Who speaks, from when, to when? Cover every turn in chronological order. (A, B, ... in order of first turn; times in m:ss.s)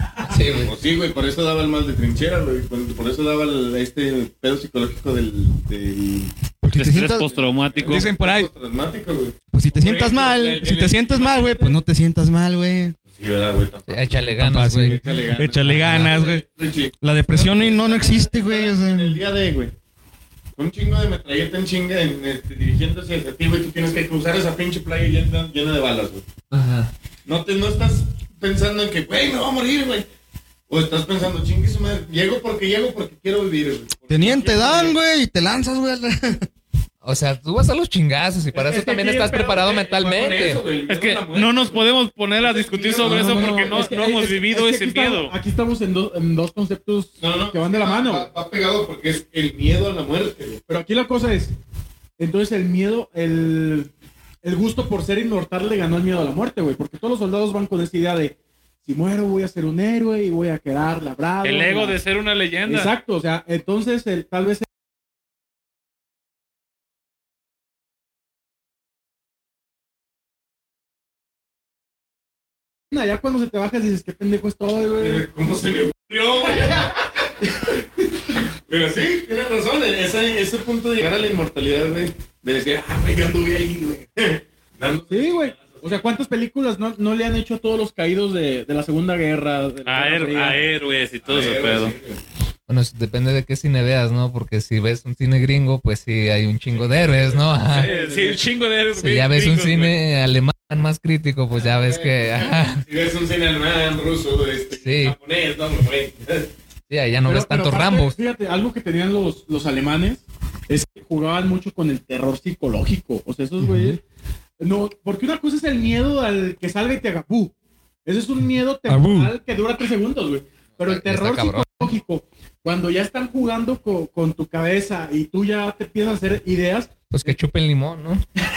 0:00.2-0:00.7 A
0:00.6-0:06.3 B
0:06.6-0:08.5 C
0:06.7-0:08.1 D
0:07.1-0:11.8 B
0:09.5-0:13.0 C
0:13.1-0:14.1 B
0:13.9-0:15.0 A
0:14.4-0:16.4 C
0:14.8-0:19.7 B
0:15.6-0:16.2 A
0:17.0-0:19.2 C
0:20.6-0:26.2 B
0:26.5-0:26.9 A
0:27.2-0:30.1 B
0:30.7-0:35.0 B
0:34.1-0:36.5 C
0:37.0-0:40.6 A
0:38.5-0:39.6 E
0:39.3-0:41.8 B
0:40.9-0:45.3 D
0:42.4-0:43.8 B
0:43.0-0:48.3 E
0:47.2-0:50.6 B
0:50.7-0:51.5 E
0:52.2-0:53.9 E
0:54.4-1:02.0 E
1:01.4-1:02.9 D
1:02.7-1:04.6 E
1:12.9-1:15.2 E
1:15.0-1:26.1 B
1:25.1-1:30.6 E
1:29.9-1:31.9 D
1:31.2-1:32.2 B
1:32.7-1:37.9 A
1:36.8-1:37.7 B
1:37.7-1:38.4 E
1:37.7-1:40.0 D
1:39.0-1:42.8 A
1:41.6-1:46.5 B
1:44.8-1:45.2 A
1:46.9-1:48.2 A
1:47.2-1:54.0 E
1:53.6-1:53.9 C
1:54.6-1:57.5 E
1:58.0-2:07.4 E
1:58.9-1:59.3 C
2:00.8-2:01.9 A
2:07.1-2:08.2 A